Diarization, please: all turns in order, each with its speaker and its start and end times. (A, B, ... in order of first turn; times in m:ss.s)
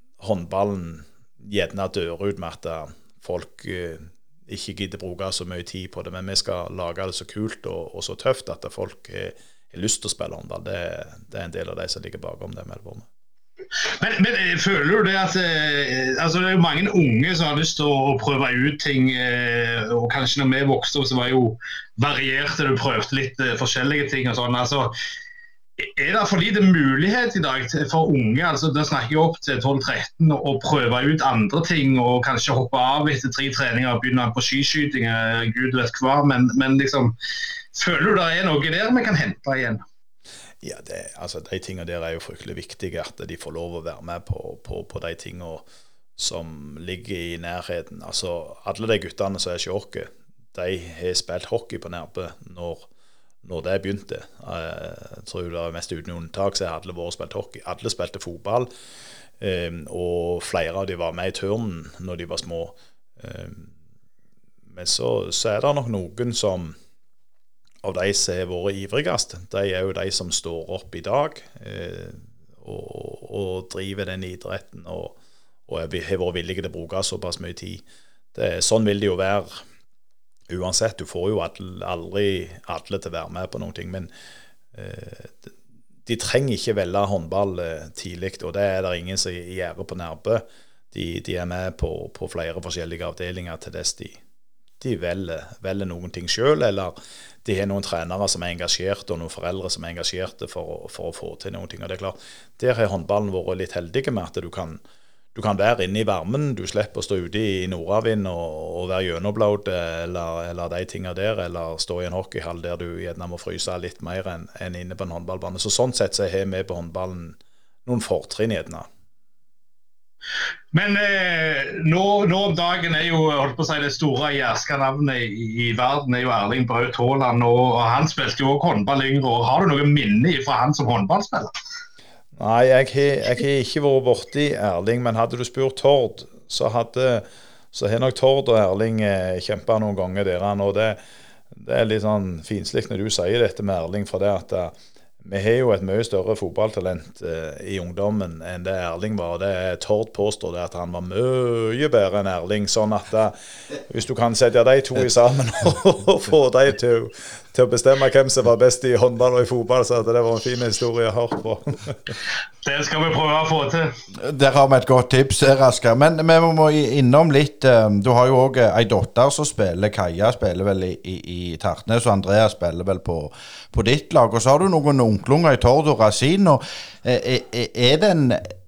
0:00.2-0:13.0 A
0:13.9-0:24.9 B
0:25.8-0:37.1 B
0:37.7-0:39.8 B
0:40.6-0:45.6 A
0:46.2-0:52.9 A
0:53.4-0:58.7 A
0:59.4-1:03.7 A
1:04.7-1:06.8 A
1:07.8-1:15.2 A
1:15.7-1:17.8 A
1:18.3-1:19.6 A
1:20.5-1:24.1 A
1:24.7-1:25.5 A
1:26.0-1:34.2 A
1:34.8-1:36.9 A
1:37.4-1:44.8 A
1:45.3-1:58.9 A
2:00.7-2:11.5 B
2:12.4-2:21.0 A
2:21.5-2:33.3 A
2:33.9-2:42.1 A
2:42.6-2:43.9 B
2:44.1-2:58.4 C